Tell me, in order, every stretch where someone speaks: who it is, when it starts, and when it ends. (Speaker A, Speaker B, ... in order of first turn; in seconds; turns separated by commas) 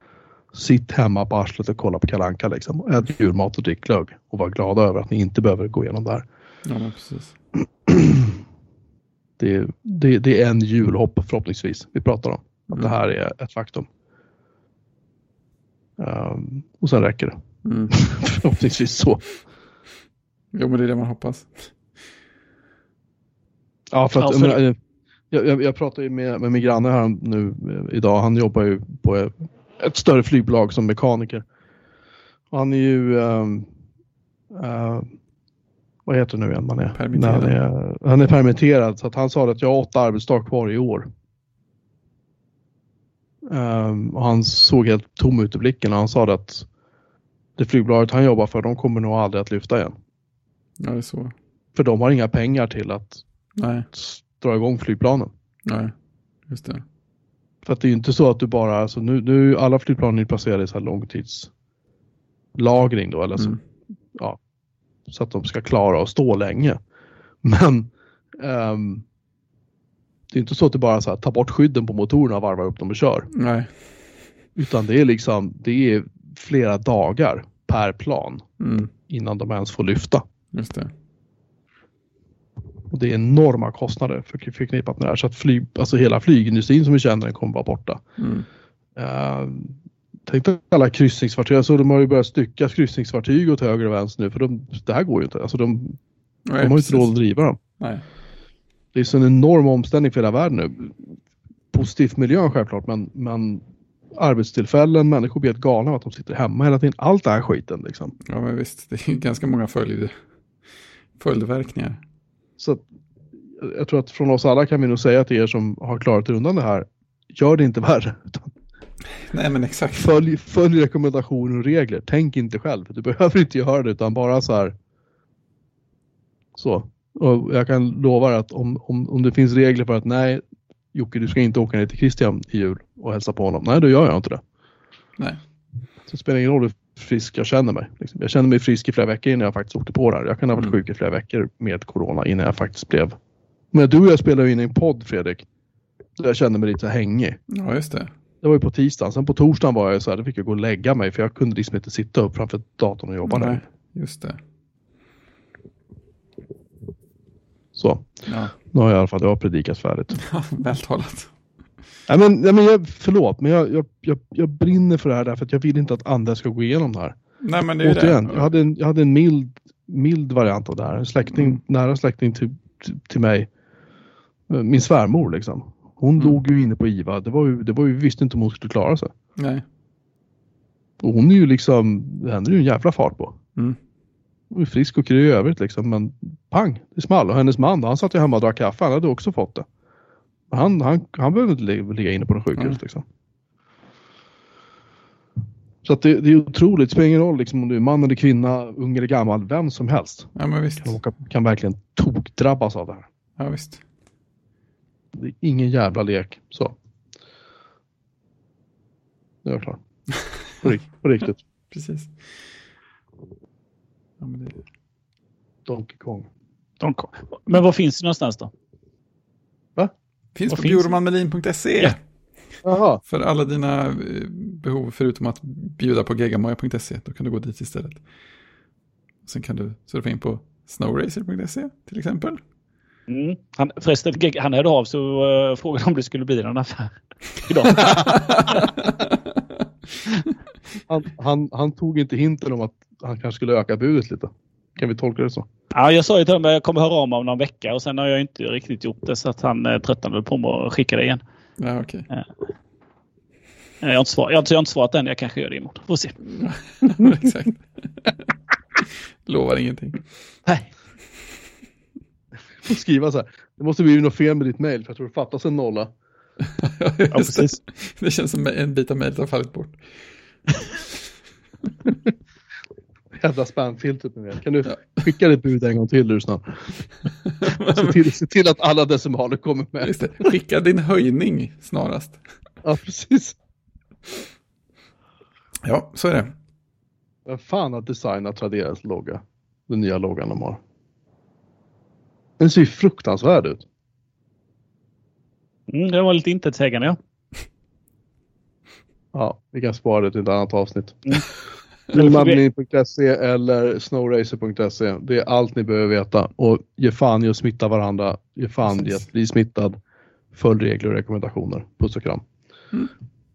Speaker A: 0.5-6.2, Speaker B: 6.7-7.3, Speaker A: 7.9-8.3, Speaker A: 9.4-13.9, Speaker A: 16.0-17.4, Speaker B: 17.6-17.9, Speaker A: 17.9-19.3, Speaker B: 20.5-21.7, Speaker A: 23.9-24.8, Speaker C: 24.1-24.6, Speaker A: 25.3-31.4, Speaker A: 32.5-33.7, Speaker A: 34.5-35.1, Speaker A: 36.1-41.1, Speaker B: 37.0-37.6, Speaker A: 43.5-46.7, Speaker A: 47.6-50.0, Speaker B: 50.8-51.3, Speaker A: 51.8-53.2, Speaker B: 53.6-53.9, Speaker A: 53.9-55.3, Speaker B: 55.6-55.9, Speaker B: 56.5-56.8, Speaker A: 57.6-61.5, Speaker A: 62.6-63.6, Speaker A: 65.1-66.8, Speaker A: 67.4-69.0, Speaker A: 70.3-73.3, Speaker B: 73.3-73.7, Speaker A: 74.6-78.5, Speaker B: 78.6-78.9, Speaker A: 79.1-80.2, Speaker B: 80.5-80.9, Speaker A: 82.9-88.0, Speaker B: 88.2-88.5, Speaker A: 89.0-89.8, Speaker A: 90.3-96.0, Speaker B: 96.5-97.1, Speaker A: 96.6-97.6, Speaker A: 98.9-101.0, Speaker A: 101.7-103.6, Speaker A: 104.2-108.2, Speaker B: 108.3-110.1, Speaker B: 111.2-112.0, Speaker A: 113.6-118.5, Speaker B: 119.1-120.1, Speaker A: 120.0-124.7, Speaker A: 126.6-130.4, Speaker A: 130.9-134.4, Speaker A: 136.1-143.1, Speaker A: 143.7-145.4, Speaker A: 146.2-147.4, Speaker B: 147.5-148.1, Speaker A: 148.4-153.7, Speaker B: 153.3-154.4, Speaker A: 157.8-158.1, Speaker B: 158.3-158.5, Speaker A: 158.7-160.2, Speaker B: 160.2-161.3, Speaker A: 162.1-167.2, Speaker B: 167.4-168.5, Speaker A: 167.8-173.5, Speaker B: 171.3-171.6, Speaker A: 174.5-179.1, Speaker B: 179.4-179.7, Speaker A: 181.0-183.4, Speaker A: 184.5-189.7, Speaker A: 190.5-193.0, Speaker A: 195.8-203.1, Speaker B: 200.3-201.0, Speaker B: 203.4-203.8, Speaker A: 205.2-206.8, Speaker A: 209.4-209.8, Speaker B: 210.1-210.7, Speaker A: 210.6-211.4, Speaker B: 211.7-212.4, Speaker B: 214.2-214.6, Speaker A: 215.7-216.3, Speaker C: 216.8-218.5, Speaker B: 220.4-222.0, Speaker C: 220.5-220.9, Speaker A: 222.6-223.0, Speaker B: 223.1-228.0, Speaker B: 229.2-232.4, Speaker C: 233.1-238.7, Speaker B: 237.7-239.4, Speaker A: 240.9-245.5, Speaker C: 245.7-251.2, Speaker B: 251.6-252.1, Speaker C: 253.8-256.2, Speaker B: 256.3-260.1, Speaker A: 262.6-265.9, Speaker B: 266.4-269.8, Speaker C: 267.1-267.6, Speaker B: 270.6-270.9, Speaker A: 273.2-276.8, Speaker B: 277.2-278.0, Speaker A: 277.5-280.3, Speaker B: 279.8-282.2, Speaker A: 282.6-283.4, Speaker B: 285.6-286.3, Speaker A: 287.3-290.6, Speaker A: 292.4-293.6, Speaker C: 295.7-297.0, Speaker A: 299.1-301.2, Speaker C: 301.9-302.4, Speaker A: 301.9-309.8, Speaker A: 310.3-312.2